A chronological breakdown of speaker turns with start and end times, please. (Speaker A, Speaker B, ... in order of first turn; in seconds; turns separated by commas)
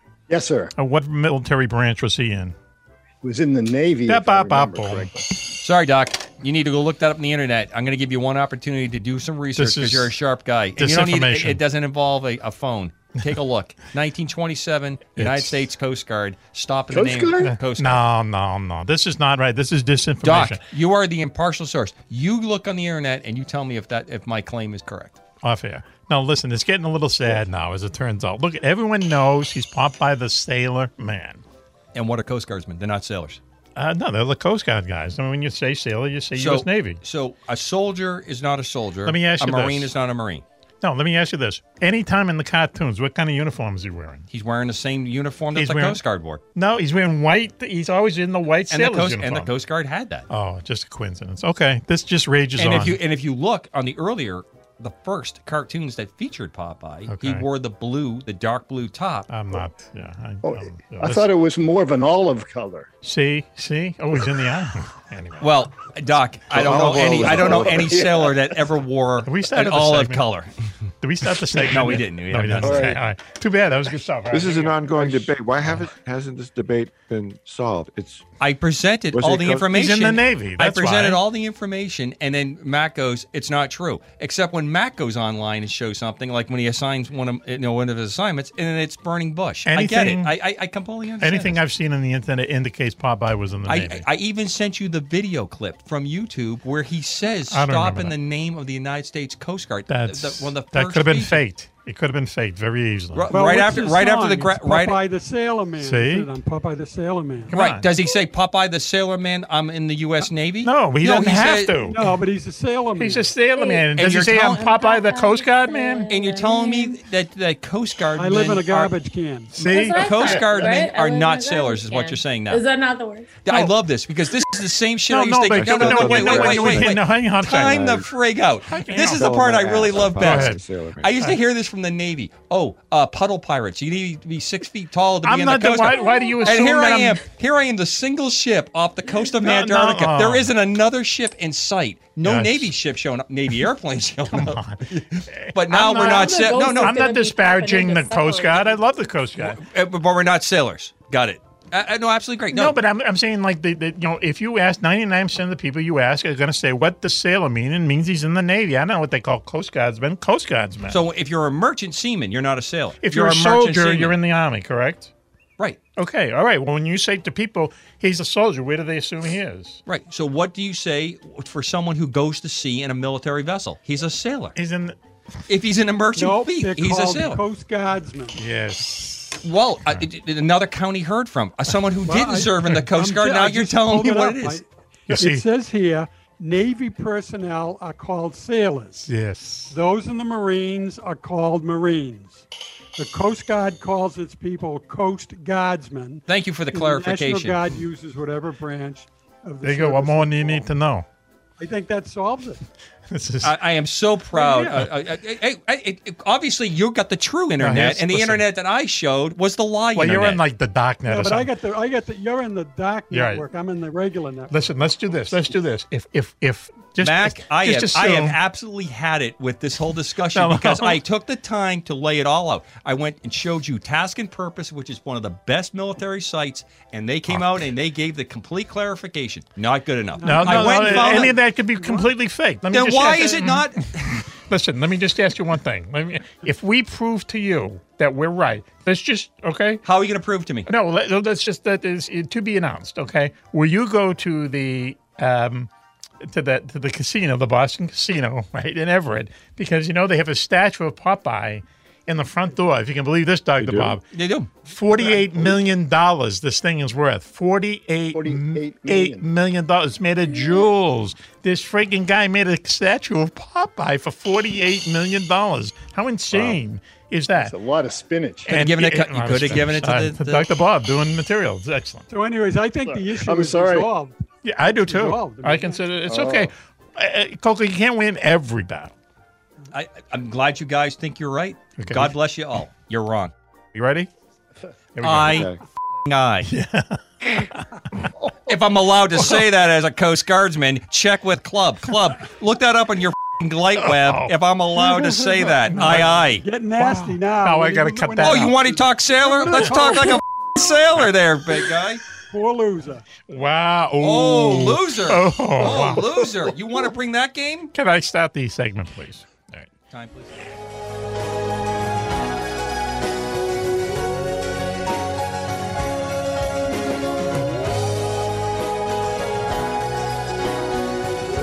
Speaker A: 0.3-0.7, Speaker B: 0.8-2.5, Speaker A: 3.2-5.3, Speaker B: 4.1-5.1, Speaker C: 5.5-18.0, Speaker B: 9.5-10.1, Speaker B: 10.8-11.6, Speaker B: 15.2-15.6, Speaker A: 16.9-17.5, Speaker B: 17.4-20.6, Speaker C: 20.2-25.2, Speaker B: 25.4-31.4, Speaker C: 31.9-33.4, Speaker B: 33.8-37.0, Speaker C: 36.3-40.4, Speaker B: 39.0-39.9, Speaker B: 40.8-44.2, Speaker C: 44.3-46.4, Speaker B: 45.5-46.0, Speaker B: 46.5-49.5, Speaker C: 48.7-50.2, Speaker B: 50.3-53.0, Speaker C: 52.6-59.3, Speaker B: 57.1-57.4, Speaker B: 59.3-61.3, Speaker A: 60.4-62.9, Speaker B: 63.0-65.5, Speaker C: 65.4-70.5, Speaker D: 66.5-68.1, Speaker B: 66.8-67.7, Speaker B: 69.2-70.2, Speaker B: 71.0-75.8, Speaker C: 71.6-73.0, Speaker D: 74.3-78.3, Speaker C: 78.4-91.6, Speaker D: 79.1-79.7, Speaker B: 79.7-81.2, Speaker B: 89.6-90.3, Speaker B: 91.2-94.0, Speaker C: 93.7-101.4, Speaker B: 97.5-98.2, Speaker B: 99.9-103.6, Speaker C: 103.1-105.0, Speaker E: 103.3-107.5, Speaker B: 105.8-106.3, Speaker B: 107.5-107.9, Speaker C: 107.5-111.8, Speaker B: 110.6-112.1, Speaker E: 111.8-113.4, Speaker B: 113.0-116.1, Speaker F: 113.5-113.9, Speaker C: 113.9-114.8, Speaker F: 114.6-117.0, Speaker C: 116.1-118.9, Speaker E: 118.1-119.6, Speaker B: 119.5-120.5, Speaker F: 119.5-123.4, Speaker C: 119.7-122.6, Speaker C: 123.4-147.0, Speaker B: 123.5-123.7, Speaker B: 125.1-127.9, Speaker D: 125.5-126.9, Speaker D: 127.5-128.1, Speaker B: 128.7-129.3, Speaker D: 129.0-131.2, Speaker B: 130.2-130.6, Speaker B: 135.2-137.2, Speaker F: 136.1-136.5, Speaker B: 139.4-140.5, Speaker B: 142.2-142.7, Speaker B: 144.3-149.6, Speaker F: 145.8-148.8, Speaker C: 149.4-152.8, Speaker B: 152.5-161.0, Speaker C: 160.9-164.2, Speaker B: 163.0-165.1, Speaker B: 166.0-169.8, Speaker C: 169.8-174.6, Speaker B: 174.6-174.9, Speaker C: 175.5-177.4, Speaker E: 176.1-178.4, Speaker B: 178.3-179.4, Speaker C: 179.4-184.6, Speaker E: 182.0-189.1, Speaker B: 185.1-185.4, Speaker B: 189.1-189.7, Speaker E: 189.7-192.4, Speaker E: 193.0-200.7, Speaker C: 196.3-197.6, Speaker B: 199.6-201.1, Speaker E: 201.6-202.6, Speaker B: 203.1-203.6, Speaker C: 203.4-210.4, Speaker E: 204.3-204.9, Speaker B: 207.6-208.4, Speaker B: 209.9-211.5, Speaker E: 211.1-215.4, Speaker B: 213.1-213.4, Speaker B: 214.5-218.4, Speaker C: 217.0-231.4, Speaker B: 220.3-221.0, Speaker B: 227.3-227.6, Speaker E: 230.1-232.1, Speaker B: 230.2-233.7, Speaker C: 232.7-234.2, Speaker B: 234.3-239.8, Speaker C: 239.8-240.7, Speaker B: 240.7-245.7, Speaker B: 246.2-254.0, Speaker D: 253.6-254.0, Speaker C: 254.1-254.5, Speaker B: 254.6-267.5, Speaker A: 255.0-255.5, Speaker A: 258.1-259.2, Speaker A: 267.4-268.5, Speaker B: 268.5-272.1, Speaker C: 268.5-270.4, Speaker E: 272.1-276.0, Speaker A: 272.9-273.9, Speaker B: 274.4-278.9, Speaker A: 276.1-276.5, Speaker C: 279.7-283.3, Speaker B: 281.8-282.1, Speaker B: 283.7-284.1, Speaker B: 285.0-285.5, Speaker C: 285.0-285.5, Speaker D: 285.2-285.6, Speaker C: 286.1-286.5, Speaker B: 286.4-288.1, Speaker C: 288.4-296.4, Speaker B: 293.8-294.3, Speaker E: 294.8-300.2, Speaker B: 295.7-296.2, Speaker B: 296.8-298.6, Speaker C: 298.2-302.0, Speaker B: 299.4-300.1, Speaker E: 302.3-303.0, Speaker B: 303.3-306.3, Speaker C: 304.0-307.7, Speaker B: 307.7-309.7, Speaker C: 309.9-310.4